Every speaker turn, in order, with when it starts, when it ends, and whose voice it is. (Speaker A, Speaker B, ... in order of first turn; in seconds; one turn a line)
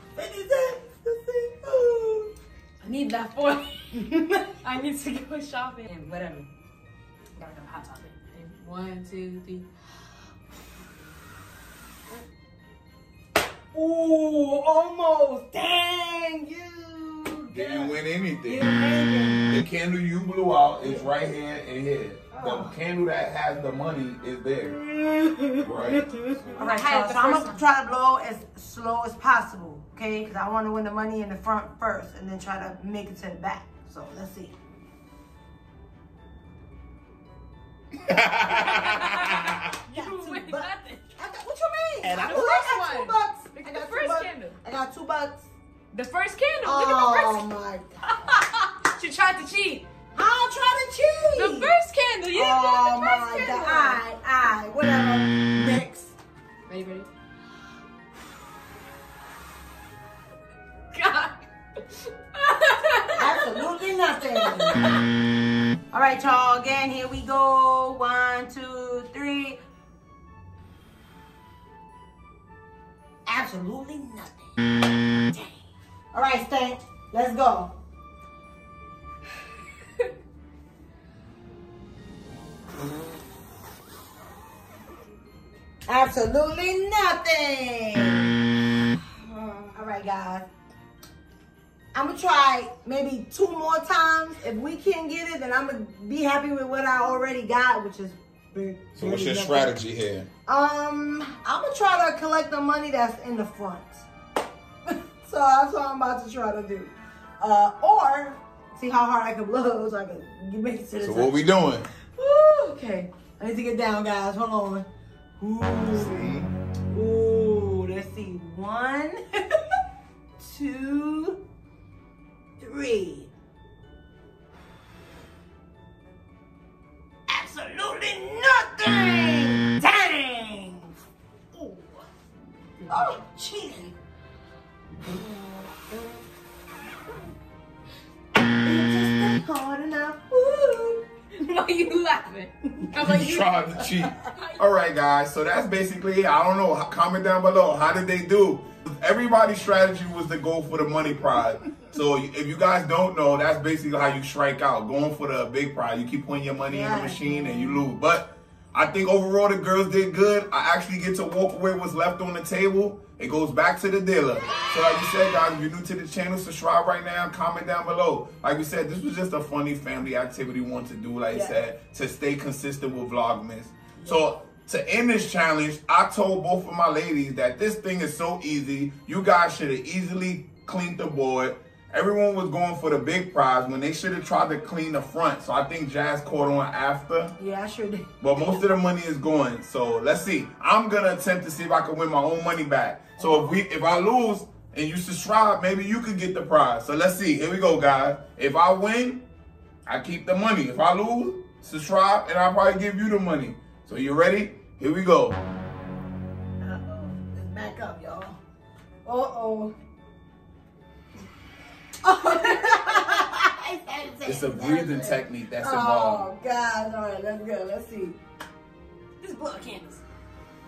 Speaker A: 0.1-2.3
Speaker B: 2.8-4.1
Speaker A: 3.9-4.5
Speaker B: 4.6-6.5
Speaker B: 7.3-9.7
Speaker A: 13.7-17.9
Speaker C: 17.5-18.7
Speaker A: 18.4-19.6
Speaker C: 19.4-24.8
Speaker A: 20.8-21.1
Speaker A: 22.3-22.8
Speaker A: 24.6-34.5
Speaker C: 25.6-26.6
Speaker B: 26.6-27.6
Speaker C: 38.0-39.7
Speaker B: 38.5-41.0
Speaker A: 39.9-45.5
Speaker B: 42.0-44.6
Speaker B: 45.9-47.4
Speaker A: 46.6-48.0
Speaker B: 48.1-49.9
Speaker A: 50.1-51.8
Speaker B: 51.3-54.0
Speaker A: 52.3-56.1
Speaker B: 56.7-57.1
Speaker B: 60.9-61.4
Speaker B: 62.3-63.4
Speaker A: 63.2-64.8
Speaker B: 64.4-65.0
Speaker A: 65.9-69.6
Speaker A: 73.2-74.5
Speaker A: 76.1-77.7
Speaker A: 85.9-88.3
Speaker A: 88.9-90.5
Speaker A: 91.9-99.8
Speaker C: 99.0-100.3
Speaker A: 100.5-104.1
Speaker A: 104.8-111.4
Speaker C: 111.0-111.9
Speaker A: 112.2-114.9
Speaker A: 115.4-116.3
Speaker C: 115.9-116.5
Speaker A: 116.9-119.6
Speaker A: 120.4-121.4
Speaker A: 122.6-123.3
Speaker A: 127.3-130.9
Speaker A: 131.5-132.0
Speaker B: 132.8-133.2
Speaker A: 132.9-133.9
Speaker A: 135.0-135.7
Speaker A: 138.6-141.0
Speaker B: 141.4-144.6
Speaker C: 142.9-187.3
Speaker A: 156.7-157.9
Speaker A: 171.3-171.6
Speaker A: 174.0-174.2
Speaker A: 187.4-188.1
Speaker C: 188.2-199.2
Speaker A: 193.2-193.5
Speaker C: 199.8-205.4
Speaker A: 206.6-208.4
Speaker A: 209.0-209.7
Speaker A: 212.0-218.2
Speaker B: 212.3-213.0
Speaker C: 214.2-216.3
Speaker B: 219.2-220.0